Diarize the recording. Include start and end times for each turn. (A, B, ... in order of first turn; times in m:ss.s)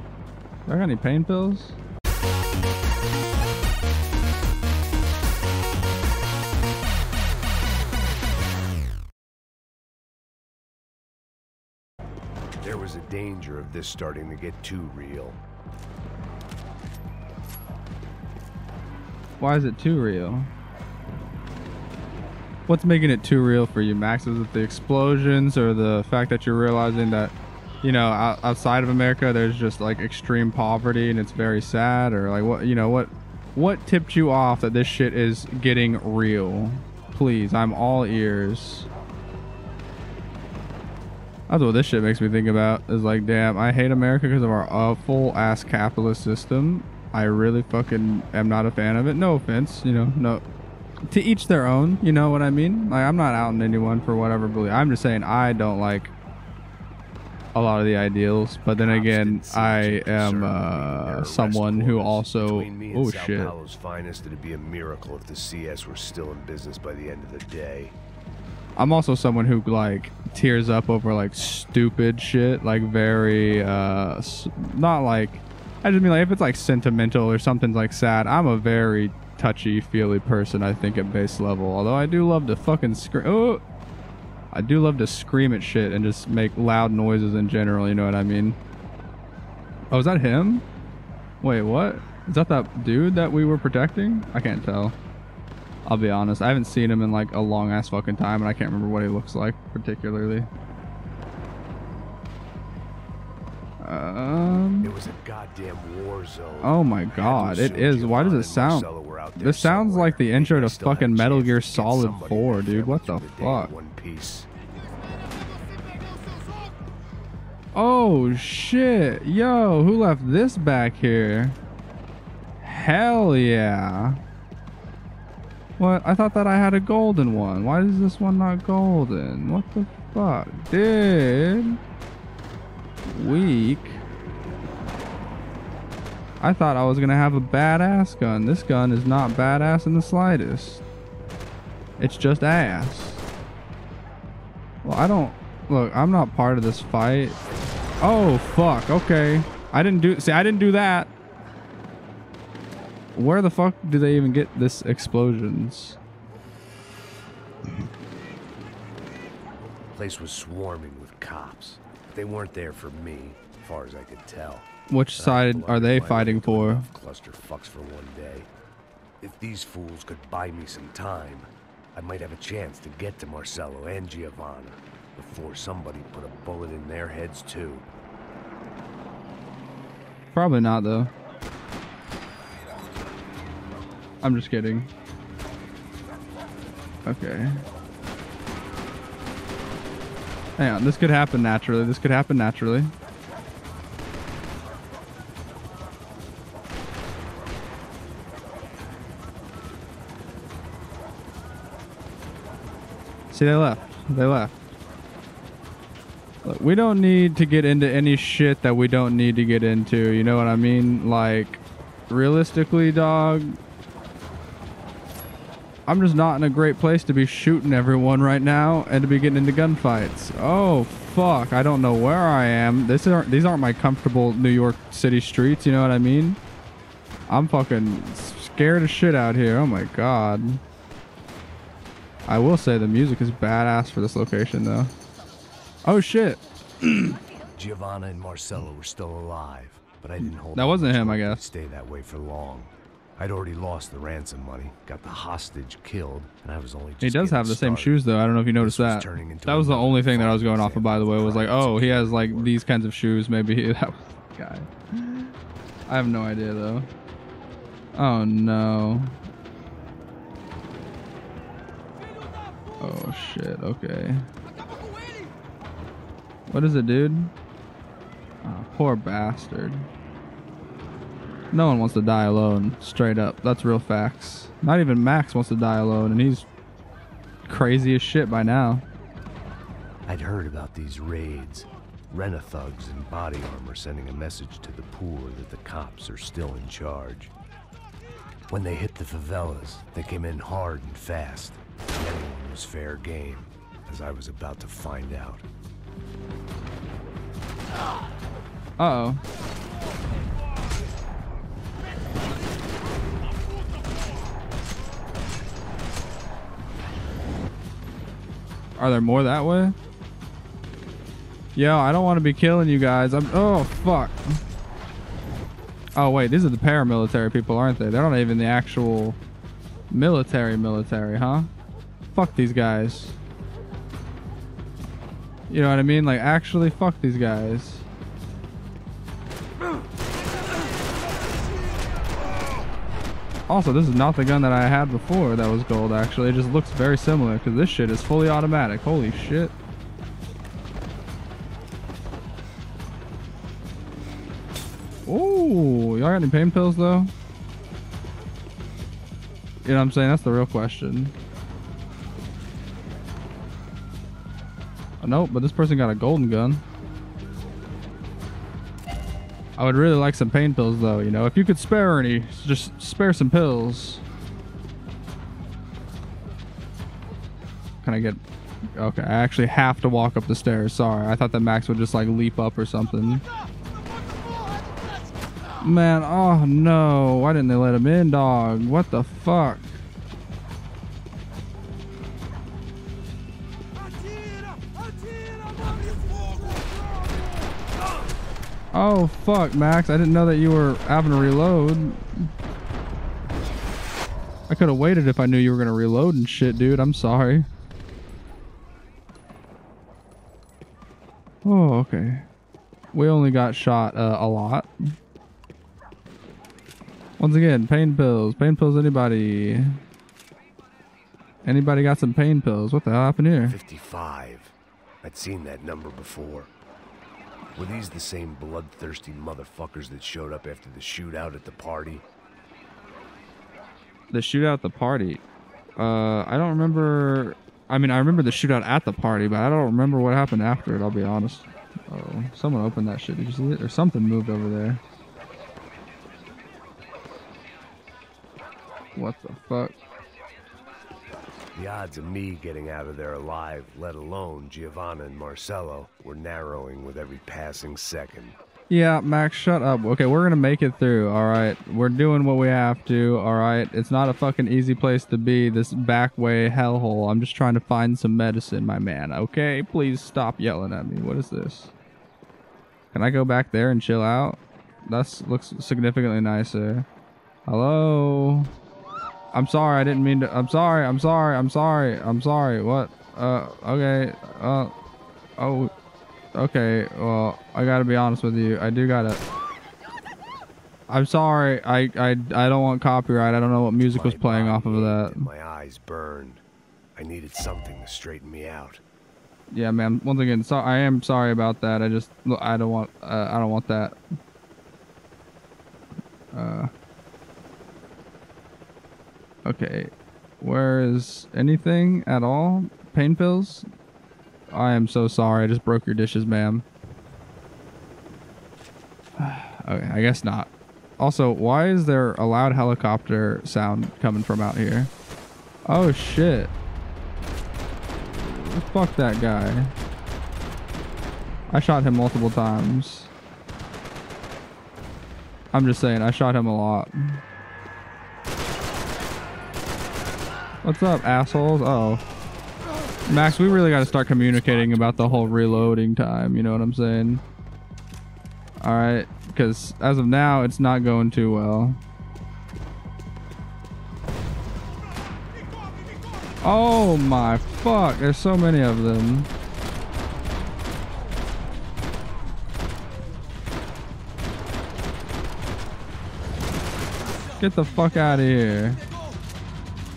0:00.7-0:01.8 A
0:12.6-0:15.4 B
0:19.4-0:20.5 A
0:22.7-0:38.9 A
0:41.5-0:50.4 A
0:51.1-0:56.1 A
0:57.5-1:03.5 A
0:58.8-1:08.0 B
1:08.8-1:23.6 A
1:24.5-1:28.6 A
1:29.9-1:30.6 A
1:31.4-1:35.0 A
1:35.8-1:40.5 A
1:43.8-1:44.9 A
1:44.8-1:54.5 B
1:46.6-1:53.7 A
1:57.7-2:01.6 A
2:02.6-2:04.2 A
2:05.8-2:11.8 A
2:13.1-2:14.0 A
2:16.4-2:20.8 A
2:22.0-2:23.2 A
2:24.8-2:27.4 A
2:28.0-2:31.1 A
2:33.2-2:36.0 A
2:39.9-2:48.5 B
2:44.9-2:46.9 A
2:49.2-2:57.9 B
3:00.3-3:01.1 A
3:04.2-3:04.9 A
3:07.0-3:07.6 A
3:10.6-3:12.9 A
3:23.3-3:24.5 A
3:26.4-3:33.6 A
3:35.9-3:46.4 A
3:47.3-3:50.6 A
3:52.2-3:54.9 A
3:55.8-3:57.2 A
3:57.5-4:08.0 B
4:00.5-4:01.5 A
4:07.0-4:15.3 A
4:08.6-4:12.7 B
4:15.9-4:16.9 A
4:17.9-4:19.2 A
4:22.8-4:24.3 A
4:26.5-4:27.3 A
4:28.4-4:29.9 A
4:31.5-4:36.4 A
4:37.5-4:38.8 A
4:40.1-4:47.3 B
4:48.5-4:55.4 B
4:58.8-4:59.2 A
5:08.8-5:09.8 A
5:11.5-5:14.4 A
5:15.9-5:19.2 A
5:19.9-5:21.5 A
5:22.1-5:23.1 A
5:25.5-5:27.8 A
5:33.5-5:39.5 A
5:45.1-5:47.1 A
5:49.6-5:51.1 A
5:55.0-5:56.6 A
5:59.6-6:04.0 A
6:07.8-6:08.2 A
6:08.8-6:13.2 A
6:15.6-6:19.8 A
6:28.7-6:32.3 A
6:34.5-6:37.5 A
6:41.4-6:42.2 A
6:42.9-6:44.7 A
6:47.2-6:49.8 A
6:51.4-6:53.6 A
6:53.4-6:56.5 B
6:57.5-7:02.0 B
7:04.1-7:05.2 A
7:05.8-7:14.8 A
7:19.0-7:19.8 A
7:21.5-7:28.4 B
7:28.7-7:41.7 A
7:42.9-7:46.8 A
7:47.5-7:48.5 A
7:49.3-7:54.7 A
7:55.4-7:55.7 A
7:56.3-7:59.2 A
8:00.9-8:05.3 A
8:03.9-8:06.4 B
8:06.9-8:08.8 B
8:09.5-8:14.0 A
8:16.3-8:16.7 A
8:19.4-8:23.7 A
8:24.5-8:26.6 A
8:29.2-8:34.9 A
8:35.6-8:36.5 A
8:38.0-8:39.7 A
8:41.5-8:43.1 A
8:45.5-8:47.2 A
8:50.6-8:52.0 A
8:53.1-8:55.8 B
8:53.1-8:57.2 A
8:58.6-9:01.8 A
9:06.4-9:09.3 A
9:17.4-9:18.8 A